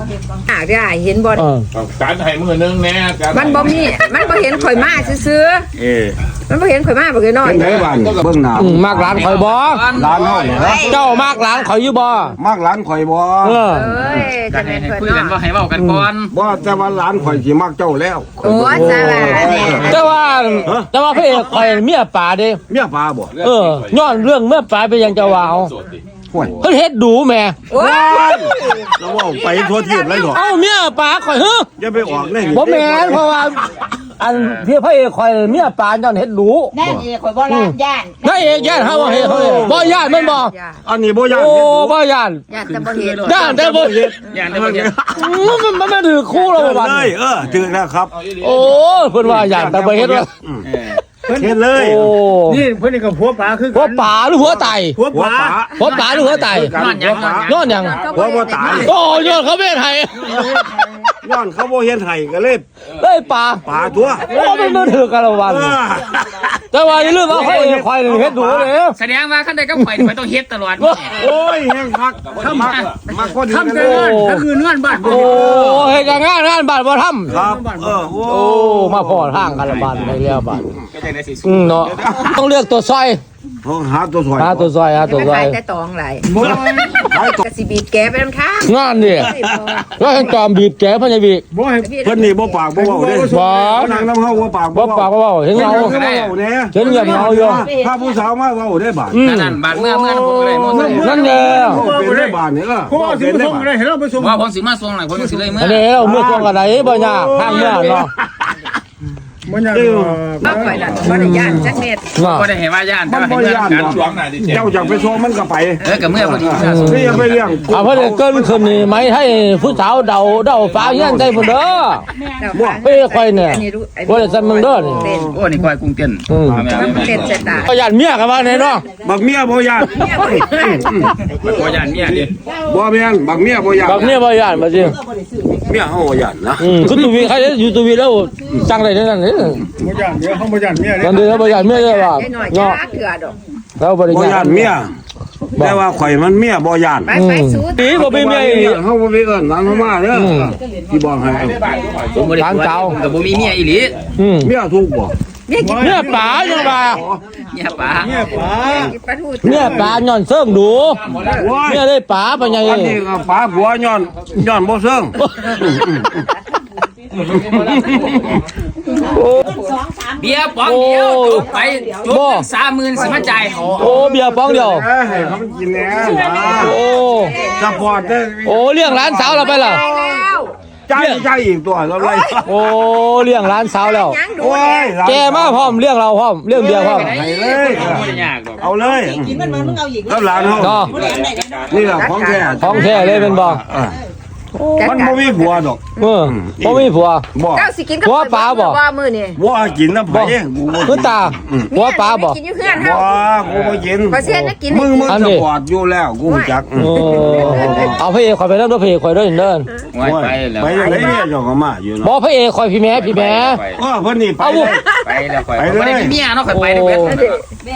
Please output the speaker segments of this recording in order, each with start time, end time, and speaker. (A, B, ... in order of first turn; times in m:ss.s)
0:00.5-0:01.4 A
0:01.4-0:01.6 B
0:01.7-0:05.1 C
0:03.3-0:05.7 A
0:05.8-0:06.2 D
0:06.5-0:07.8 A
0:07.4-0:09.3 E
0:07.8-0:08.3 C
0:08.6-0:09.8 B
0:09.1-0:11.2 D
0:09.9-0:11.0 E
0:10.5-0:11.4 A
0:10.8-0:12.4 B
0:12.4-0:14.3 E
0:13.4-0:13.9 B
0:13.7-0:15.4 A
0:14.1-0:16.3 D
0:15.8-0:16.0 B
0:16.3-0:20.1 E
0:18.4-0:20.1 A
0:18.4-0:22.6 B
0:20.6-0:20.9 E
0:21.3-0:21.6 A
0:22.7-0:23.3 E
0:23.4-0:24.1 C
0:23.4-0:25.7 B
0:25.2-0:25.9 C
0:26.6-0:27.6 B
0:27.7-0:30.4 A
0:27.7-0:30.4 E
0:29.4-0:30.2 C
0:30.3-0:31.7 B
0:31.8-0:33.4 E
0:32.1-0:32.5 C
0:32.5-0:33.6 B
0:34.2-0:36.7 B
0:34.3-0:34.6 D
0:36.7-0:38.3 F
0:36.8-0:37.1 E
0:37.4-0:40.5 B
0:38.5-0:40.0 E
0:39.3-0:40.8 A
0:40.8-0:42.0 E
0:41.3-0:42.4 B
0:42.5-0:43.7 A
0:42.6-0:43.6 D
0:43.2-0:44.1 B
0:43.4-0:45.6 E
0:44.3-0:45.0 D
0:45.1-0:47.1 B
0:46.5-0:48.1 E
0:48.2-0:48.7 C
0:48.4-0:50.3 B
0:49.2-0:50.6 E
0:50.6-0:51.0 D
0:51.2-0:51.6 G
0:51.3-0:52.1 E
0:51.8-0:52.7 B
0:52.5-0:54.1 G
0:53.7-0:55.0 B
0:54.4-0:58.9 E
0:54.9-0:55.6 G
0:55.8-0:56.7 B
0:55.8-0:58.9 D
0:57.4-0:58.0 B
0:57.7-0:58.9 A
0:58.7-1:00.5 B
1:01.2-1:02.6 E
1:03.0-1:03.6 B
1:03.6-1:04.3 E
1:04.2-1:05.8 B
1:05.4-1:06.6 E
1:06.7-1:09.0 B
1:06.9-1:07.9 D
1:08.0-1:08.7 E
1:08.9-1:11.2 D
1:09.8-1:10.1 B
1:10.8-1:11.2 B
1:11.1-1:14.2 E
1:12.3-1:12.8 C
1:12.5-1:12.9 D
1:13.4-1:16.0 G
1:13.7-1:14.5 B
1:15.0-1:17.4 B
1:15.1-1:15.7 E
1:17.3-1:20.7 E
1:17.3-1:17.9 G
1:18.2-1:20.7 B
1:19.6-1:20.2 D
1:20.9-1:21.9 D
1:21.4-1:23.2 B
1:21.8-1:22.4 E
1:23.6-1:24.7 E
1:24.4-1:25.6 B
1:25.0-1:26.3 A
1:26.2-1:27.0 G
1:26.3-1:27.4 E
1:27.0-1:30.0 A
1:28.6-1:29.3 B
1:29.2-1:29.8 E
1:29.9-1:31.4 B
1:31.5-1:31.9 G
1:31.7-1:32.7 A
1:32.0-1:39.3 E
1:32.7-1:34.1 G
1:33.3-1:33.9 B
1:34.7-1:35.9 B
1:35.5-1:36.3 D
1:36.7-1:37.7 B
1:39.1-1:39.6 B
1:39.2-1:41.2 D
1:39.9-1:43.7 E
1:40.6-1:42.4 G
1:40.7-1:41.8 B
1:42.9-1:44.4 G
1:44.2-1:45.8 D
1:45.1-1:45.5 G
1:45.6-1:48.1 B
1:46.0-1:48.4 E
1:49.5-1:50.8 G
1:49.7-1:50.2 E
1:50.4-1:52.1 A
1:50.4-1:51.0 D
1:50.9-1:51.7 E
1:52.2-1:52.5 B
1:52.2-1:54.1 D
1:53.0-1:59.0 E
1:53.8-1:55.0 C
1:55.8-1:57.6 D
1:56.6-2:02.0 B
2:00.7-2:01.6 E
2:02.4-2:05.4 A
2:02.5-2:02.8 E
2:02.8-2:05.0 B
2:04.7-2:05.4 E
2:05.3-2:07.6 D
2:06.3-2:06.6 B
2:06.6-2:07.7 A
2:06.7-2:07.4 C
2:07.6-2:08.8 B
2:09.0-2:11.1 E
2:09.9-2:11.3 A
2:11.2-2:12.4 D
2:12.6-2:14.2 E
2:13.8-2:15.0 B
2:14.9-2:15.5 F
2:15.6-2:17.1 E
2:16.6-2:19.6 B
2:19.8-2:21.3 G
2:21.0-2:22.8 B
2:21.2-2:23.4 A
2:23.8-2:24.7 B
2:24.1-2:24.9 E
2:25.6-2:27.1 E
2:27.0-2:28.1 A
2:27.1-2:28.8 B
2:27.9-2:31.7 E
2:30.1-2:30.6 B
2:31.3-2:32.3 C
2:32.1-2:34.0 D
2:32.4-2:33.0 B
2:33.2-2:33.5 C
2:34.2-2:34.5 B
2:34.4-2:35.1 E
2:35.5-2:36.8 A
2:35.6-2:36.4 G
2:35.8-2:37.0 B
2:36.7-2:37.2 E
2:37.5-2:38.3 D
2:38.0-2:38.9 G
2:38.5-2:40.0 A
2:39.4-2:41.0 B
2:39.5-2:39.9 G
2:41.1-2:41.5 A
2:41.3-2:41.8 E
2:41.5-2:43.0 B
2:42.4-2:46.3 E
2:45.2-2:45.5 B
2:47.3-2:48.4 E
2:47.3-2:48.4 C
2:49.1-2:49.5 B
2:49.5-2:50.2 F
2:50.2-2:53.8 D
2:50.6-2:51.5 B
2:51.6-2:52.0 F
2:52.1-2:52.4 B
2:53.1-2:56.8 E
2:53.8-2:54.9 B
2:56.0-2:58.0 A
2:56.6-2:57.4 B
2:57.5-3:00.0 E
2:58.4-2:59.8 B
2:59.2-3:00.6 A
3:00.9-3:02.5 E
3:00.9-3:01.2 B
3:02.0-3:02.4 A
3:02.4-3:04.2 B
3:03.8-3:04.9 A
3:04.4-3:05.8 E
3:05.0-3:07.1 B
3:06.5-3:08.7 D
3:07.0-3:09.4 E
3:09.0-3:11.6 F
3:09.4-3:09.8 B
3:10.0-3:10.9 E
3:10.5-3:11.9 C
3:10.6-3:10.9 B
3:11.7-3:14.0 E
3:11.8-3:13.3 A
3:12.6-3:13.6 B
3:14.6-3:14.9 B
3:14.8-3:16.0 A
3:14.8-3:17.7 E
3:16.0-3:17.2 B
3:17.5-3:19.4 A
3:18.0-3:18.8 B
3:19.4-3:21.7 E
3:20.1-3:22.4 B
3:21.7-3:23.3 A
3:22.7-3:28.0 E
3:24.0-3:25.2 A
3:24.2-3:24.5 B
3:25.0-3:25.4 B
3:26.2-3:28.0 A
3:26.8-3:29.7 B
3:29.9-3:31.1 D
3:30.0-3:32.1 E
3:30.7-3:31.3 A
3:32.0-3:33.6 B
3:33.0-3:33.8 D
3:33.8-3:34.8 E
3:34.4-3:34.8 B
3:34.7-3:35.0 A
3:35.0-3:37.4 D
3:35.6-3:36.2 E
3:36.5-3:37.2 B
3:37.0-3:37.4 A